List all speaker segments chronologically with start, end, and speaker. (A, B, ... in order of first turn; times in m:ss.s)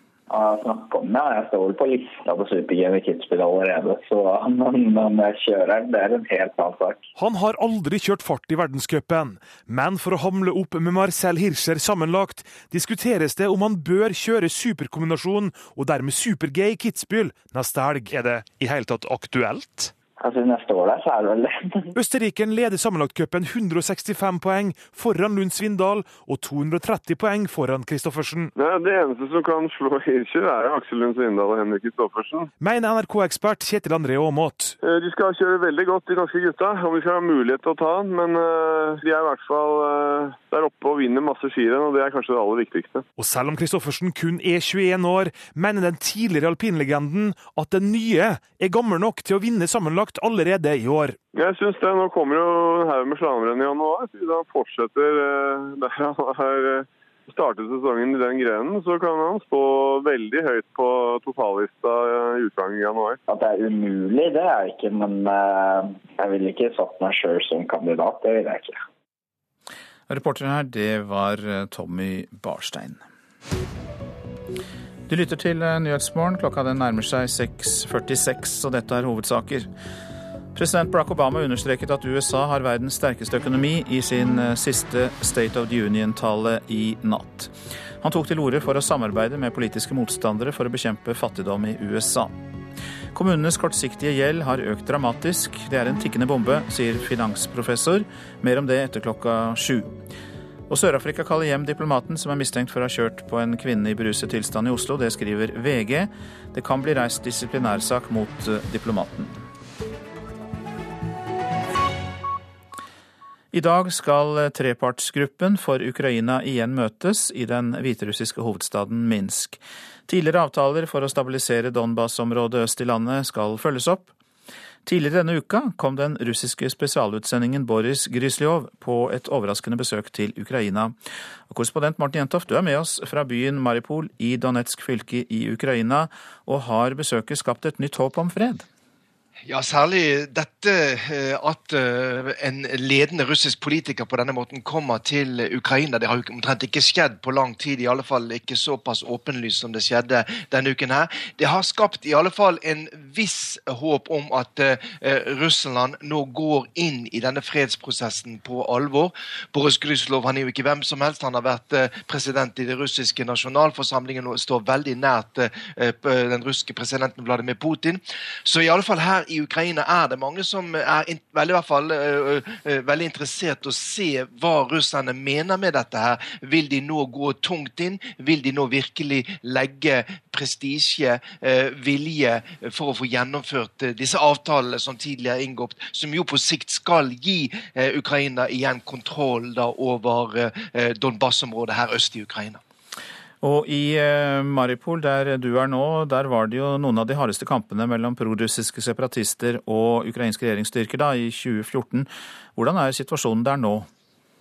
0:00.3-0:07.0 A
0:07.2-0:19.9 B
0:20.2-0:21.9 A
0:22.0-0:28.5 B
0:28.6-0:32.5 C
0:32.6-0:34.8 B
0:34.8-0:43.0 C
0:43.2-0:51.2 B
0:51.3-1:03.2 C
1:03.3-1:08.8 A
1:10.1-1:13.0 D
1:15.1-1:19.7 D
1:20.6-1:32.4 D
1:33.1-1:40.0 D
1:40.7-1:49.4 D
1:53.5-2:04.1 D
2:04.9-2:11.0 D
2:11.5-2:18.7 D
2:19.5-3:12.6 E
3:13.4-3:23.9 D